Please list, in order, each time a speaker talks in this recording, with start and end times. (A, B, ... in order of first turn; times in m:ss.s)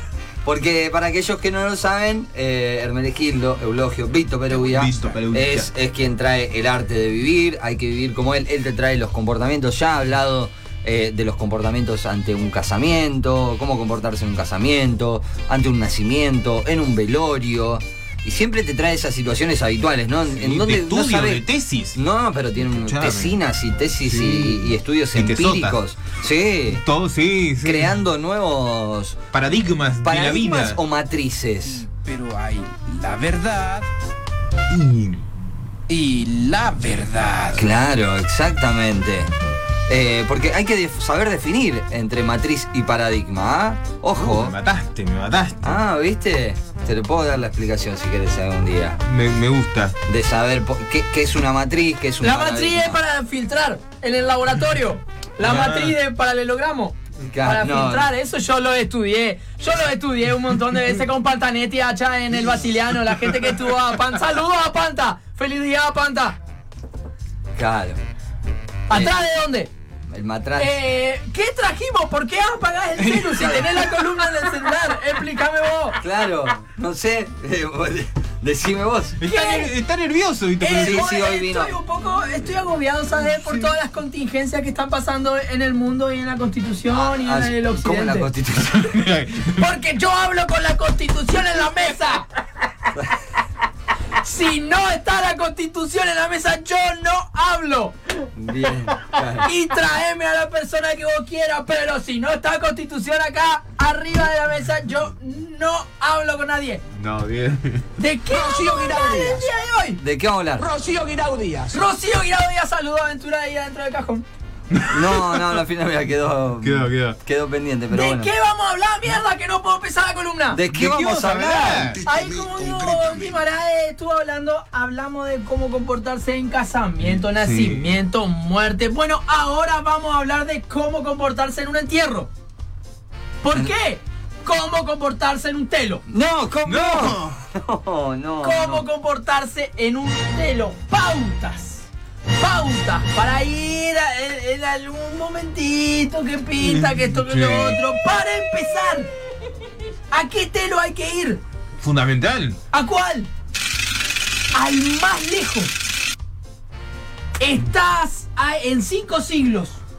0:00.4-0:26.8 A
0:04.5-0:05.7 B
0:20.3-0:22.0 B
0:22.6-0:23.3 B
0:24.0-0:25.8 B
0:26.7-0:28.0 B
0:27.6-0:29.2 A
0:29.3-0:30.8 B
0:30.0-0:31.9 A
0:31.8-0:33.9 C
0:34.7-0:35.3 B
0:35.9-0:37.7 C
0:37.5-0:39.3 A
0:39.9-0:44.5 A
0:44.1-0:45.8 B
0:45.6-0:49.0 A
0:49.0-0:50.0 B
0:50.0-0:53.0 A
0:52.2-1:06.4 D
0:55.4-0:56.0 B
0:57.3-0:58.1 A
1:03.1-1:03.7 B
1:07.6-1:08.0 A
1:08.9-1:09.7 D
1:10.1-1:10.8 A
1:10.6-1:16.0 D
1:13.0-1:13.4 B
1:13.3-1:13.8 A
1:16.0-1:19.2 A
1:19.2-1:21.1 B
1:19.2-1:19.8 D
1:20.6-1:28.3 D
1:20.7-1:21.8 A
1:26.9-1:29.1 A
1:28.8-1:29.7 B
1:29.4-1:32.3 D
1:34.2-1:38.3 D
1:38.3-1:39.5 A
1:39.4-1:46.8 D
1:46.9-1:47.8 B
1:48.0-1:50.0 D
1:48.3-1:49.5 C
1:50.0-1:50.7 A
1:50.6-1:51.9 C
1:51.7-1:54.2 D
1:54.7-1:55.6 B
1:54.9-1:58.3 A
1:56.6-1:57.2 B
1:57.9-2:00.6 D
2:00.5-2:02.0 A
2:00.7-2:02.2 B
2:02.0-2:12.3 D
2:07.0-2:08.0 B
2:13.4-2:16.0 D
2:16.1-2:18.8 A
2:16.6-2:17.4 B
2:18.4-2:29.1 D
2:26.6-2:27.8 B
2:30.1-2:31.4 D
2:31.8-2:32.6 B
2:32.7-2:33.3 D
2:34.5-2:35.7 D
2:37.4-2:39.8 D